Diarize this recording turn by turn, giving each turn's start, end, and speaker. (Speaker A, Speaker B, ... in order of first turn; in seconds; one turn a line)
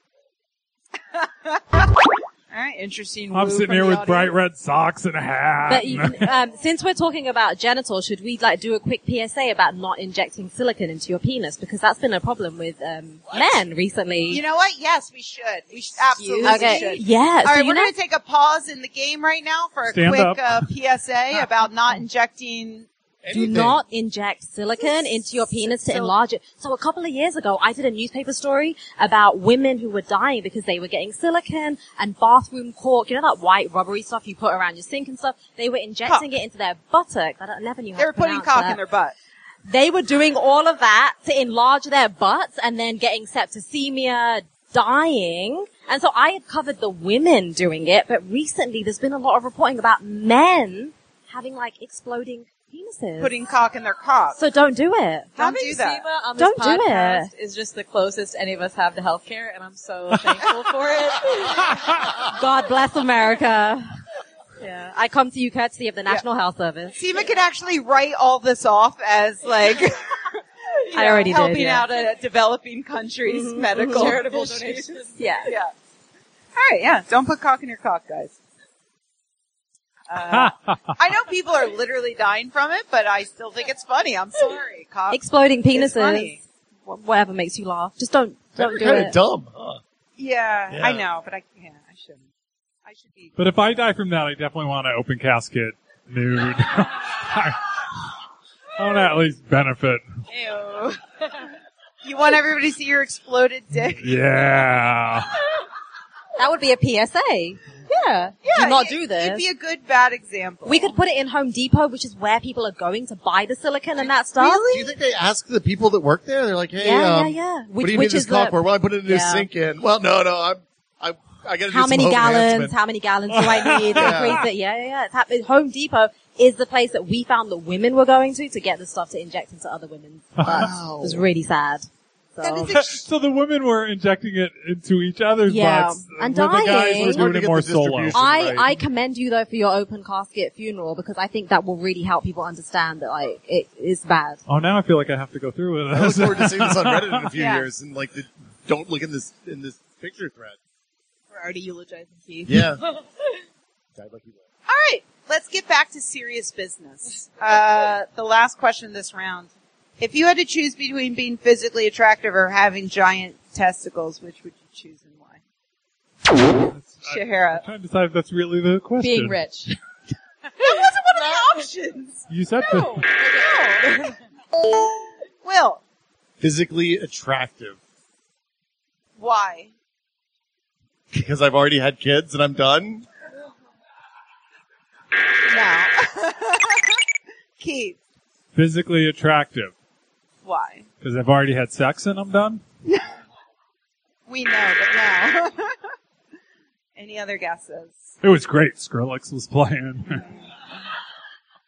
Speaker A: 1.1-4.4
Speaker B: 3.3-6.3
Speaker C: 5.7-14.4
Speaker A: 14.3-22.9
Speaker D: 16.2-17.0
Speaker C: 16.4-17.9
Speaker B: 19.9-20.7
Speaker E: 23.2-23.8
Speaker C: 23.3-38.8
Speaker A: 24.8-25.2
Speaker A: 25.7-26.2
Speaker A: 38.0-39.1
Speaker C: 39.7-53.4
Speaker A: 53.2-54.4
Speaker C: 54.4-55.4
Speaker A: 55.4-56.0
Speaker D: 55.4-62.0
Speaker C: 56.4-57.3
Speaker B: 61.6-62.2
Speaker C: 62.2-63.9
Speaker C: 64.6-67.0
Speaker A: 67.0-75.7
Speaker C: 70.9-71.9
Speaker C: 73.3-74.2
Speaker D: 73.8-75.5
Speaker C: 75.2-75.5
Speaker A: 76.5-78.4
Speaker A: 80.1-86.4
Speaker B: 80.3-80.9
Speaker C: 85.1-89.2
Speaker E: 88.6-89.8
Speaker A: 90.2-92.3
Speaker E: 90.7-91.0
Speaker A: 92.9-93.4
Speaker B: 93.4-97.7
Speaker B: 98.8-100.0
Speaker A: 100.3-101.0
Speaker A: 102.0-104.3
Speaker B: 104.0-105.3
Speaker C: 106.4-109.4
Speaker A: 108.4-111.0
Speaker C: 110.7-114.8
Speaker A: 114.0-114.8
Speaker E: 114.6-122.8
Speaker C: 116.8-119.5
Speaker C: 121.7-132.8
Speaker B: 123.3-124.4
Speaker E: 123.9-124.5
Speaker B: 130.4-131.2
Speaker E: 130.5-130.9
Speaker A: 132.4-133.0
Speaker B: 132.7-138.6
Speaker C: 135.5-137.3
Speaker E: 136.8-138.7
Speaker C: 138.1-144.4
Speaker B: 144.5-147.3
Speaker E: 145.9-150.6
Speaker A: 147.3-147.7
Speaker A: 151.3-152.7
Speaker E: 152.5-152.8
Speaker E: 153.9-154.4
Speaker A: 154.7-165.4
Speaker B: 166.7-169.4
Speaker A: 167.0-167.7
Speaker D: 169.0-169.8
Speaker A: 170.5-174.1
Speaker B: 172.3-173.1
Speaker D: 172.9-174.2
Speaker A: 175.4-175.8
Speaker E: 176.4-177.8
Speaker A: 179.2-179.7
Speaker E: 181.1-183.1
Speaker A: 185.4-187.0
Speaker A: 187.6-188.0
Speaker B: 188.6-189.7
Speaker A: 190.4-190.9
Speaker B: 191.0-192.6
Speaker A: 194.3-195.9
Speaker A: 197.0-198.0
Speaker B: 198.2-200.3